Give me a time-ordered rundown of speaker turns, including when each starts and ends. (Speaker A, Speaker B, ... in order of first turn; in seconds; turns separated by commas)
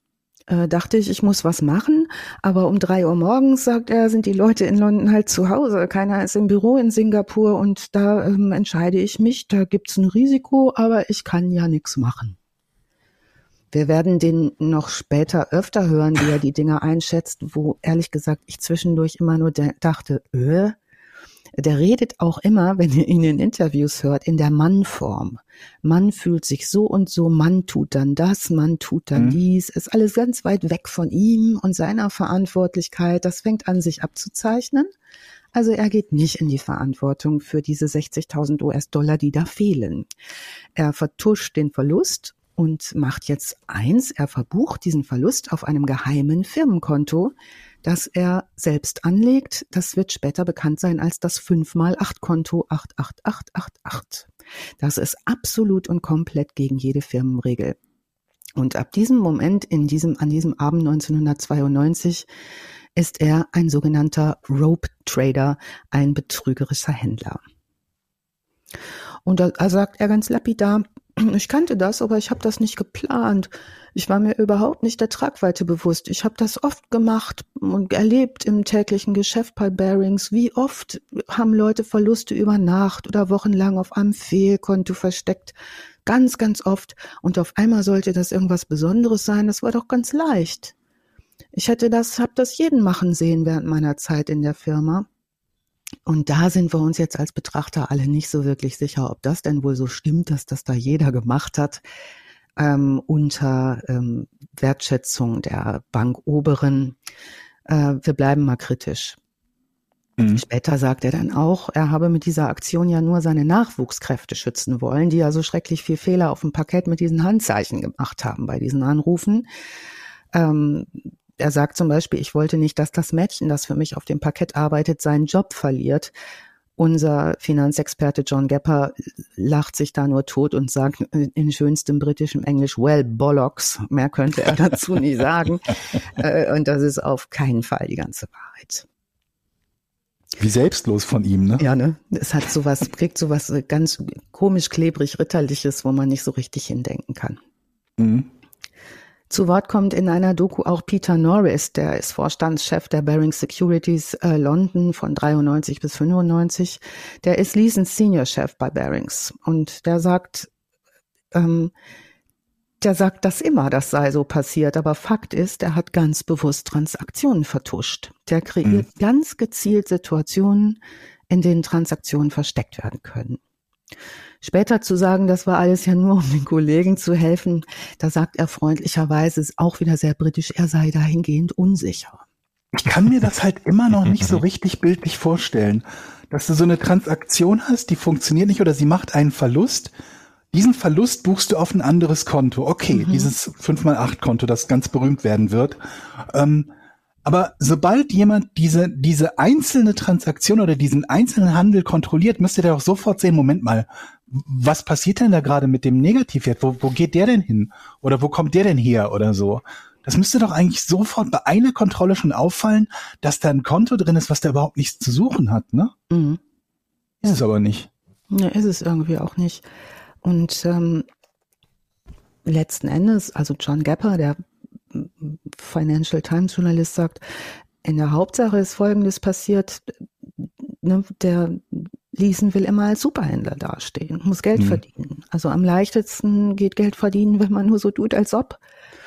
Speaker A: 0.5-12.4, Speaker A: 13.7-20.8, Speaker A: 21.6-34.9, Speaker A: 35.5-40.1, Speaker A: 40.8-54.3, Speaker A: 54.8-57.8, Speaker A: 58.6-62.3, Speaker A: 63.0-67.4, Speaker A: 69.3-85.5, Speaker A: 86.1-90.7, Speaker A: 91.5-95.1, Speaker A: 96.1-101.8, Speaker A: 102.6-107.0, Speaker A: 107.7-109.2, Speaker A: 110.3-119.5, Speaker A: 120.3-126.1, Speaker A: 126.8-138.9, Speaker B: 140.4-141.7, Speaker A: 141.6-147.4, Speaker B: 148.0-148.3, Speaker A: 149.3-160.5, Speaker A: 161.3-161.7, Speaker A: 162.8-170.8, Speaker A: 171.3-173.4, Speaker A: 174.4-182.2, Speaker B: 182.7-189.9, Speaker B: 190.5-196.7, Speaker A: 192.9-193.3, Speaker B: 197.2-215.9, Speaker A: 216.1-216.4, Speaker B: 217.2-217.9, Speaker A: 218.3-219.6, Speaker A: 220.2-221.1, Speaker A: 222.4-224.4, Speaker A: 224.9-227.2, Speaker A: 227.8-229.9, Speaker A: 230.7-238.6